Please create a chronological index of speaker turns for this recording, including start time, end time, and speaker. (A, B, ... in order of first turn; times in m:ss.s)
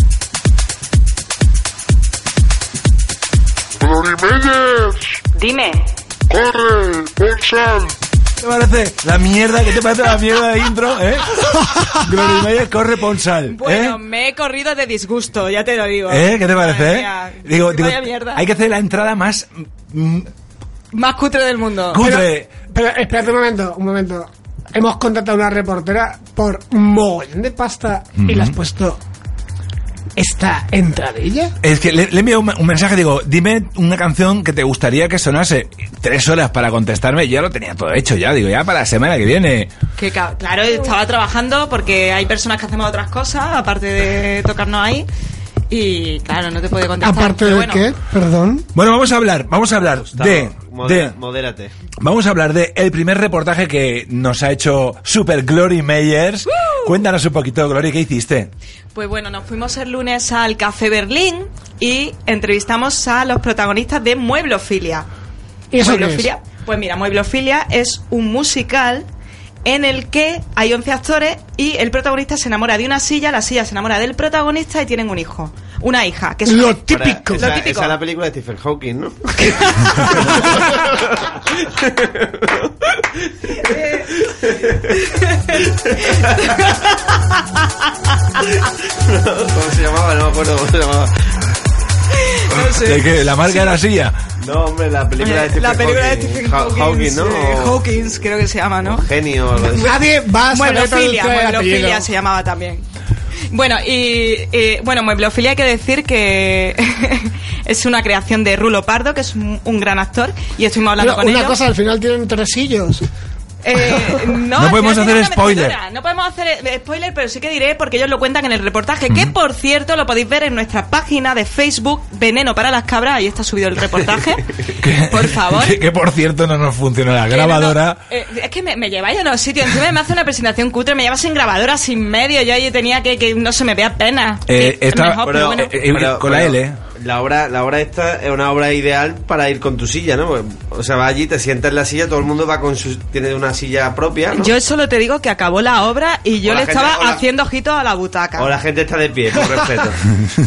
0:05.3-0:05.9 A
0:08.4-0:14.0 B
0:13.5-0:18.4 A
0:16.1-0:20.3 B
0:20.9-0:22.0 A
0:21.9-0:22.5 B
0:22.0-0:29.0 C
0:28.2-0:28.6 B
0:30.2-0:31.5 C
0:31.6-0:39.7 B
0:40.0-0:45.1 A
0:45.7-0:47.8 A
0:47.0-0:48.7 C
0:48.7-0:51.1 B
0:49.8-0:51.7 D
0:52.0-0:58.5 B
0:58.9-1:05.0 A
1:05.7-1:06.3 C
1:05.8-1:09.0 A
1:09.6-1:18.0 A
1:16.4-1:17.6 C
1:16.9-1:24.9 D
1:19.5-1:20.5 C
1:23.7-1:24.0 A
1:25.0-1:27.2 A
1:25.5-1:26.3 D
1:28.4-1:31.3 D
1:32.1-1:33.8 A
1:32.7-1:34.2 B
1:34.4-1:37.8 D
1:35.2-1:39.1 A
1:38.9-1:40.0 D
1:39.7-1:42.1 C
1:40.5-1:42.8 A
1:43.5-1:51.6 A
1:51.0-1:53.0 C
1:53.6-2:05.8 A
1:54.5-1:55.8 B
2:04.6-2:08.0 B
2:07.3-2:15.8 A
2:14.5-2:16.8 B
2:15.2-2:24.5 D
2:24.3-2:28.6 A
2:26.4-2:27.2 D
2:28.4-2:30.0 D